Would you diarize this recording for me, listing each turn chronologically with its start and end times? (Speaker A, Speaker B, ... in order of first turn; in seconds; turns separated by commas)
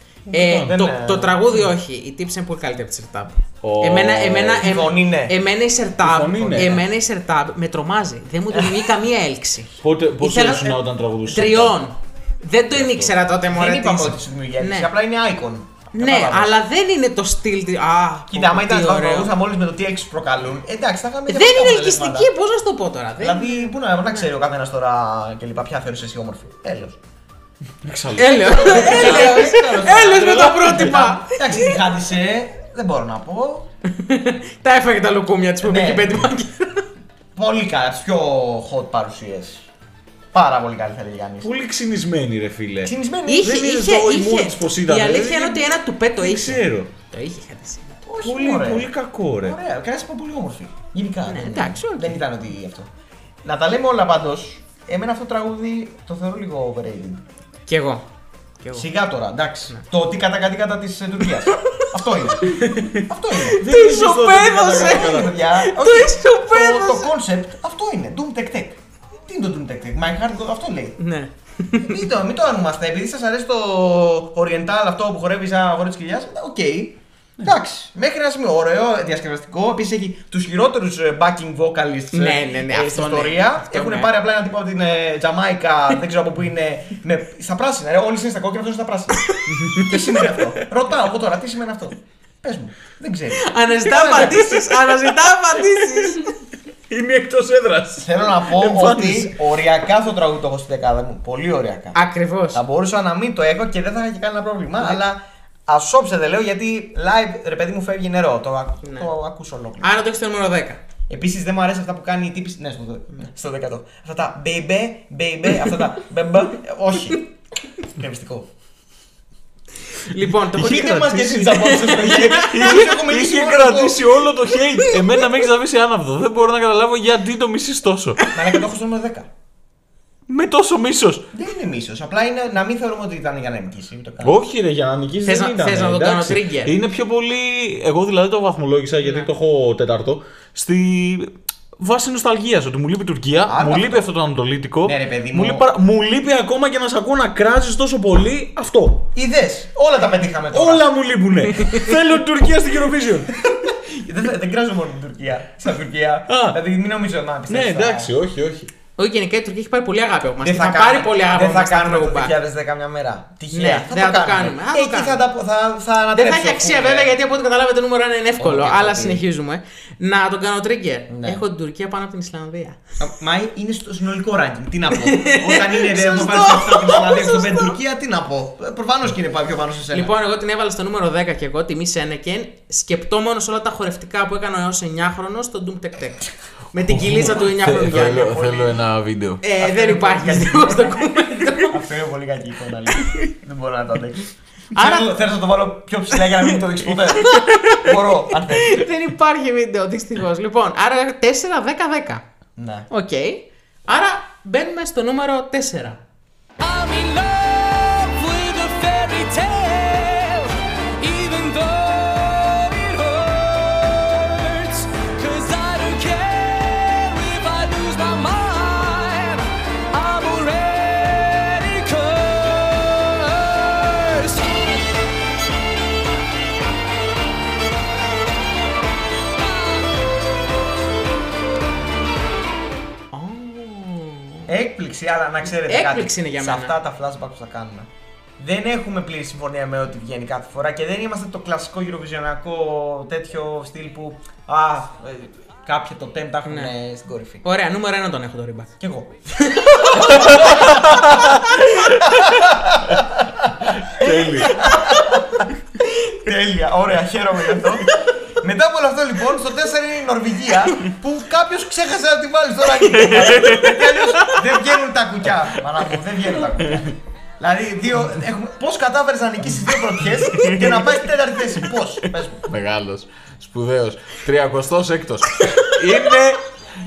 Speaker A: 0.3-0.8, Speaker B: 0.3-14.9, Speaker C: 0.6-1.4, Speaker A: 3.6-4.8, Speaker C: 4.6-5.4, Speaker A: 6.0-6.8, Speaker C: 6.4-6.9, Speaker C: 8.5-8.9, Speaker A: 9.8-11.8, Speaker A: 12.7-13.2, Speaker C: 13.5-16.6, Speaker B: 15.9-19.3, Speaker C: 18.3-22.3, Speaker B: 21.3-24.2, Speaker C: 23.2-27.0, Speaker A: 27.8-30.9, Speaker B: 28.2-31.8, Speaker C: 28.4-33.7, Speaker B: 33.9-36.8, Speaker C: 35.6-36.3, Speaker C: 37.4-39.7, Speaker C: 40.3-41.5, Speaker A: 41.4-45.6, Speaker C: 42.8-43.5, Speaker B: 43.3-48.0, Speaker A: 46.2-46.9, Speaker C: 48.0-52.9, Speaker A: 48.2-49.6, Speaker B: 51.3-52.2, Speaker C: 53.4-57.2, Speaker B: 57.7-58.1, Speaker B: 58.6-58.9, Speaker C: 58.7-63.6, Speaker B: 62.5-67.1, Speaker A: 63.6-65.3, Speaker C: 64.6-71.0, Speaker B: 71.0-72.0, Speaker C: 71.8-94.6, Speaker B: 82.1-84.1, Speaker B: 89.3-90.0, Speaker B: 93.3-96.4, Speaker A: 96.0-96.2, Speaker A: 96.9-99.5, Speaker C: 98.0-102.0, Speaker B: 101.9-102.6, Speaker C: 102.5-110.0, Speaker B: 108.8-109.1, Speaker B: 109.8-110.8, Speaker C: 111.1-118.5, Speaker B: 120.0-122.7, Speaker C: 120.5-124.2, Speaker A: 122.3-128.2, Speaker C: 128.3-129.3, Speaker A: 130.3-131.3, Speaker C: 131.3-134.4, Speaker A: 134.2-149.1, Speaker B: 135.2-136.7, Speaker C: 143.5-144.1, Speaker C: 144.8-145.7, Speaker C: 149.1-150.9, Speaker A: 150.5-153.4, Speaker C: 153.3-158.1, Speaker A: 156.3-156.6, Speaker A: 157.5-158.7, Speaker B: 159.0-162.3, Speaker C: 160.4-167.2, Speaker B: 163.5-165.3, Speaker B: 166.1-172.8, Speaker C: 168.4-169.2, Speaker C: 171.1-171.4, Speaker C: 173.0-180.1, Speaker B: 175.1-177.7, Speaker B: 179.9-188.5, Speaker A: 186.9-189.4, Speaker C: 187.7-188.7, Speaker B: 189.4-191.8, Speaker C: 189.6-198.9, Speaker B: 194.8-195.2, Speaker B: 197.2-202.2, Speaker C: 202.6-202.9, Speaker B: 202.9-206.0, Speaker D: 206.6-224.7, Speaker B: 233.1-234.5, Speaker C: 234.5-247.4, Speaker B: 235.5-236.8, Speaker B: 246.5-246.7, Speaker B: 247.4-248.7, Speaker C: 248.8-272.5, Speaker B: 249.5-250.4, Speaker A: 250.2-252.4, Speaker A: 253.8-254.7, Speaker A: 262.9-264.4, Speaker A: 266.5-266.9, Speaker A: 270.3-271.0, Speaker A: 272.5-276.4